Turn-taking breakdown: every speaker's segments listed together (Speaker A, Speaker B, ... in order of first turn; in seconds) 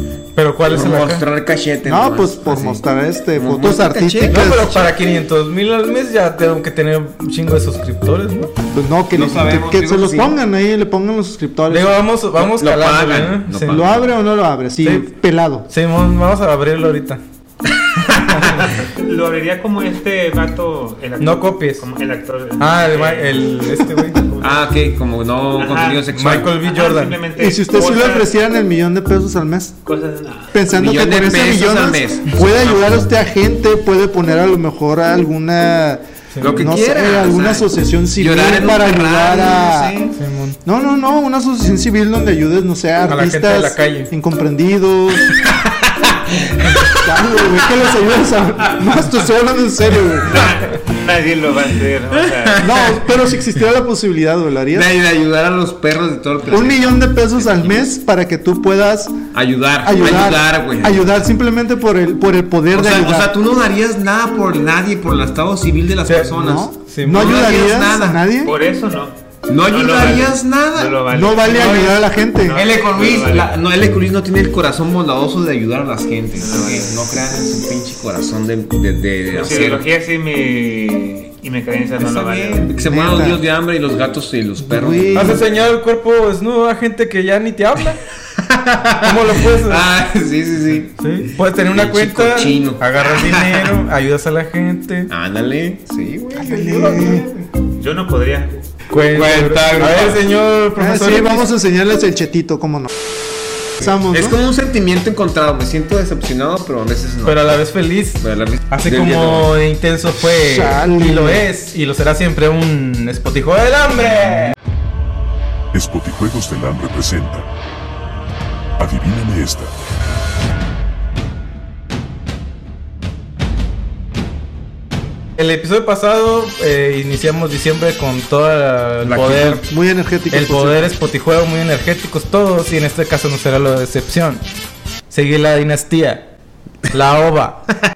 Speaker A: 0.3-1.2, 4.3-8.5, 11.7-13.8, 14.8-15.1, 15.7-17.2, 21.2-21.8, 22.6-24.2, 26.1-27.2, 36.3-36.7, 40.2-40.6, 43.1-44.1, 66.1-67.4, 85.1-88.0, 89.0-89.8, 91.0-95.1, 98.9-101.5, 107.2-114.5, 125.4-129.7, 130.3-134.4, 135.1-136.2, 136.9-137.7
Speaker B: 0.7-2.8, 3.4-4.8, 9.1-10.3, 12.4-14.1, 17.8-18.5, 24.4-26.5, 30.7-33.0, 36.4-40.2, 45.4-47.6, 50.3-50.6, 52.1-53.0, 54.7-57.9, 59.3-61.1, 62.7-68.2, 69.5-71.0, 72.5-79.8, 82.0-85.4, 88.4-93.7, 95.1-97.5, 99.1-100.2, 103.8-107.6, 108.2-109.5, 129.0-129.6
Speaker C: 1.8-4.8, 8.7-12.0, 13.6-15.7, 27.4-29.8, 30.5-36.0, 36.5-40.0, 40.6-45.4, 47.0-50.5, 52.6-54.9, 56.5-59.2, 59.8-63.3, 66.3-68.5, 71.1-72.6, 82.8-83.4, 84.6-85.4, 96.3-97.2, 100.8-102.9, 103.8-104.4, 110.2-111.4, 129.6-130.9
Speaker D: 18.4-24.7, 25.5-28.3, 29.9-30.6, 50.3-52.7, 68.4-73.5, 76.4-77.1, 79.3-82.7, 97.8-98.6
Speaker E: 115.7-117.5, 118.8-119.7